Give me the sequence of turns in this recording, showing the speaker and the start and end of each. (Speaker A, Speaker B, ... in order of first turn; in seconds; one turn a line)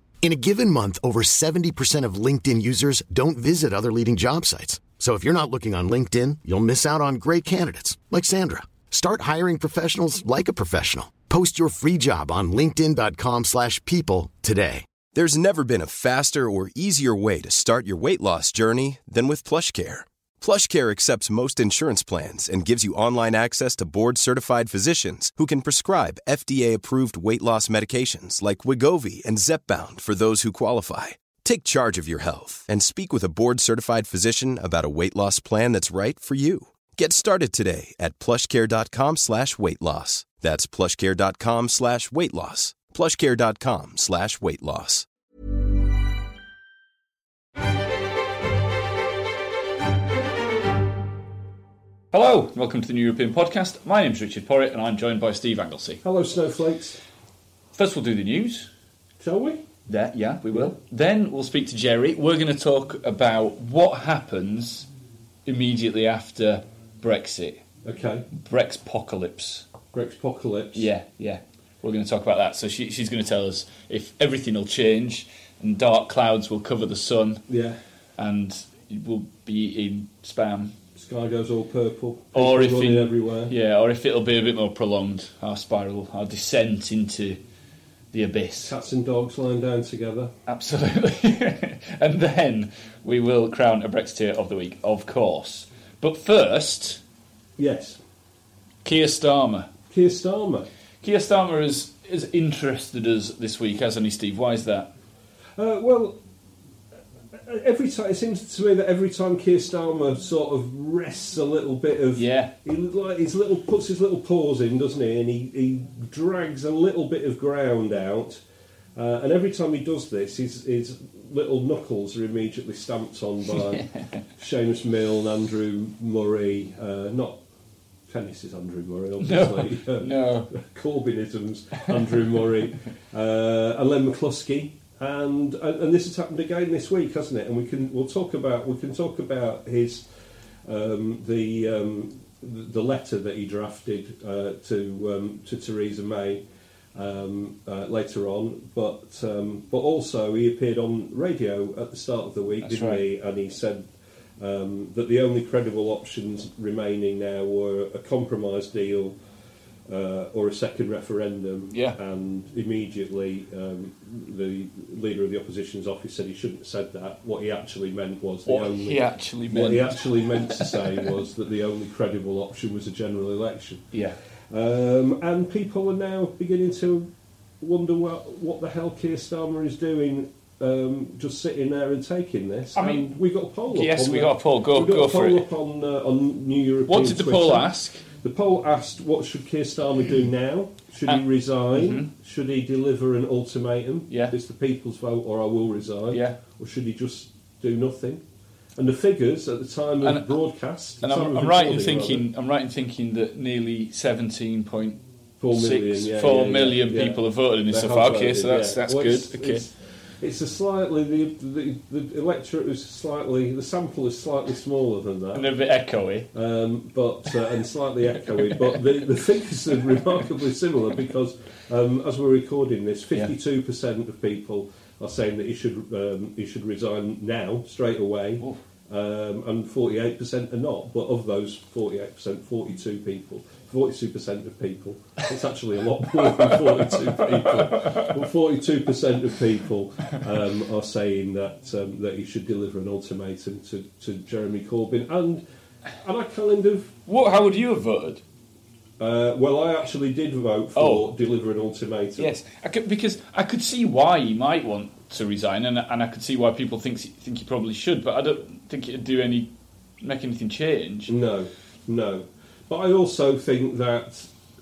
Speaker A: 0.2-14.8
Speaker B: 15.1-45.0
Speaker C: 52.1-56.0
Speaker D: 56.0-57.0
Speaker C: 57.7-58.7
Speaker D: 59.2-59.6
Speaker C: 59.9-64.9
Speaker C: 65.4-67.6
Speaker D: 67.8-68.3
Speaker C: 68.3-69.7
Speaker D: 69.9-70.9
Speaker C: 70.7-77.4
Speaker D: 77.5-77.8
Speaker C: 78.2-80.7
Speaker D: 81.0-83.5
Speaker C: 82.3-87.4
Speaker C: 88.1-88.7
Speaker D: 88.6-90.3
Speaker C: 90.5-97.0
Speaker D: 97.6-98.0
Speaker C: 98.8-99.7
Speaker D: 99.9-100.7
Speaker C: 101.0-104.9
Speaker D: 105.5-106.2
Speaker D: 107.3-118.4
Speaker C: 112.1-112.5
Speaker D: 118.9-123.8
Speaker C: 123.7-124.2
Speaker D: 124.4-127.4
Speaker D: 128.1-140.1
Speaker C: 129.2-130.5
Speaker D: 140.6-146.4
Speaker D: 146.9-159.2
Speaker C: 152.6-153.1
Speaker D: 159.9-173.8
Speaker C: 161.7-162.0
Speaker C: 168.4-171.0
Speaker D: 174.5-198.2
Speaker C: 182.8-183.1
Speaker C: 183.7-185.5
Speaker C: 186.9-188.0
Speaker C: 191.1-192.1
Speaker C: 194.1-194.3
Speaker C: 196.1-196.4
Speaker D: 198.8-202.3
Speaker C: 200.0-200.3
Speaker C: 201.0-209.6
Speaker D: 205.4-215.5
Speaker C: 215.3-216.3
Speaker D: 216.3-245.4
Speaker C: 236.2-238.1
Speaker D: 246.0-246.9
Speaker C: 247.1-248.2
Speaker D: 249.0-252.3
Speaker C: 250.7-251.1
Speaker C: 252.2-259.5
Speaker C: 260.0-261.1
Speaker D: 261.1-264.3